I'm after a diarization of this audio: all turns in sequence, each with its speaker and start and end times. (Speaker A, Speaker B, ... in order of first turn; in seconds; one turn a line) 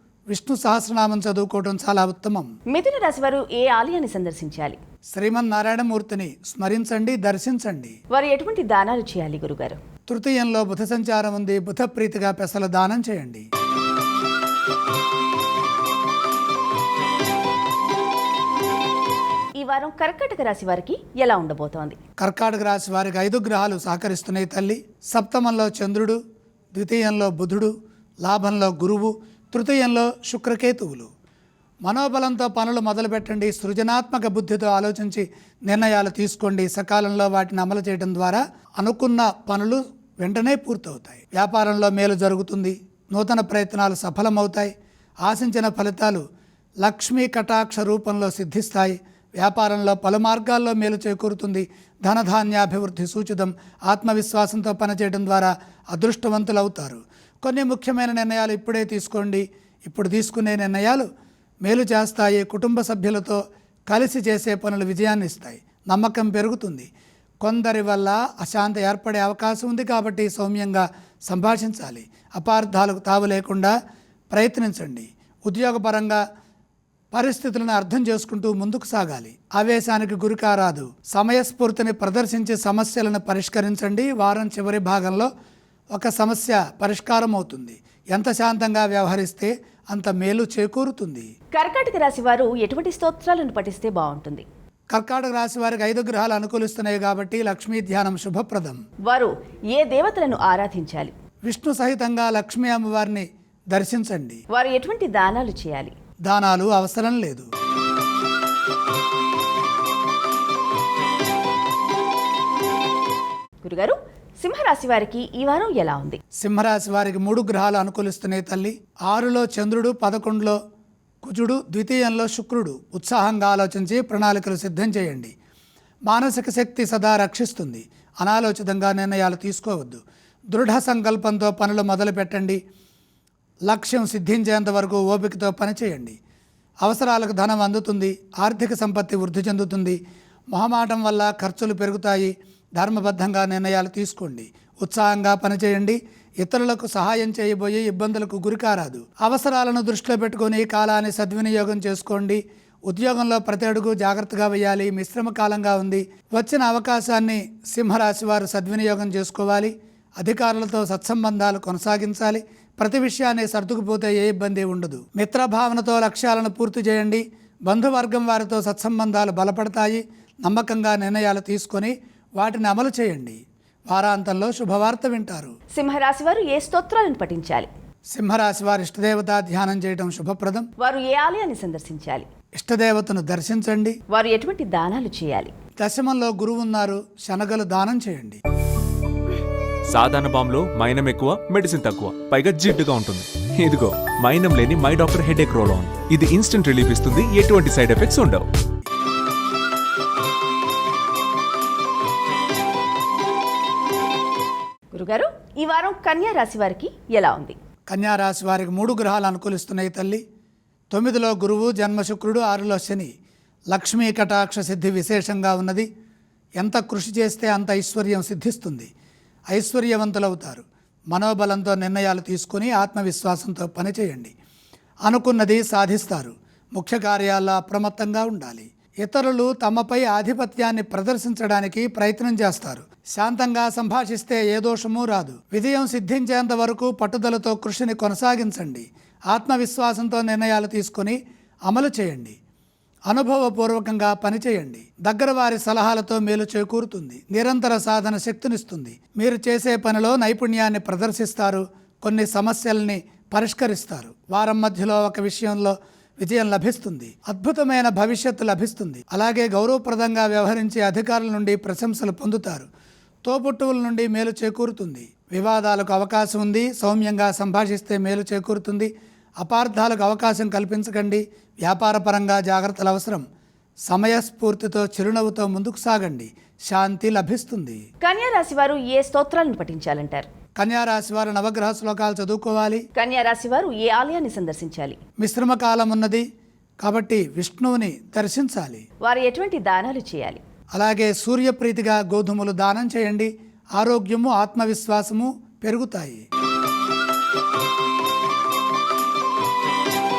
Speaker A: 0.3-2.5
Speaker B: 2.7-4.8
Speaker A: 5.1-8.0
Speaker B: 8.1-9.8
Speaker A: 10.1-13.5
Speaker B: 19.6-22.0
Speaker A: 22.2-26.2
Speaker A: 26.7-27.7
Speaker A: 28.2-31.1
Speaker A: 31.8-44.7
Speaker A: 45.2-46.2
Speaker A: 46.8-61.1
Speaker A: 61.6-66.9
Speaker A: 67.4-73.8
Speaker A: 74.3-76.2
Speaker A: 77.1-85.3
Speaker A: 85.9-91.3
Speaker B: 91.5-94.5
Speaker A: 94.9-98.8
Speaker B: 99.1-101.1
Speaker A: 101.4-104.4
Speaker B: 104.5-105.9
Speaker A: 106.2-107.5
Speaker B: 113.6-116.2
Speaker A: 116.4-120.6
Speaker A: 121.2-125.3
Speaker A: 126.1-132.6
Speaker A: 133.7-136.2
Speaker A: 136.8-140.0
Speaker A: 140.5-175.5
Speaker B: 175.7-177.7
Speaker A: 178.1-180.7
Speaker B: 180.8-182.2
Speaker A: 182.6-184.0
Speaker B: 184.1-185.5
Speaker A: 185.8-188.4
Speaker C: 189.9-198.4
Speaker B: 204.9-207.6
Speaker A: 207.9-210.2
Speaker A: 210.9-213.1
Speaker A: 213.7-215.9
Speaker A: 216.6-218.9
Speaker A: 219.5-224.3
Speaker A: 225.0-242.4
Speaker A: 243.1-262.7
Speaker A: 263.2-273.2
Speaker A: 273.9-277.8
Speaker B: 278.0-280.3
Speaker A: 280.6-282.9
Speaker B: 283.0-285.0
Speaker A: 285.2-286.2
Speaker A: 286.8-288.9
Speaker B: 289.0-290.4
Speaker A: 290.7-296.2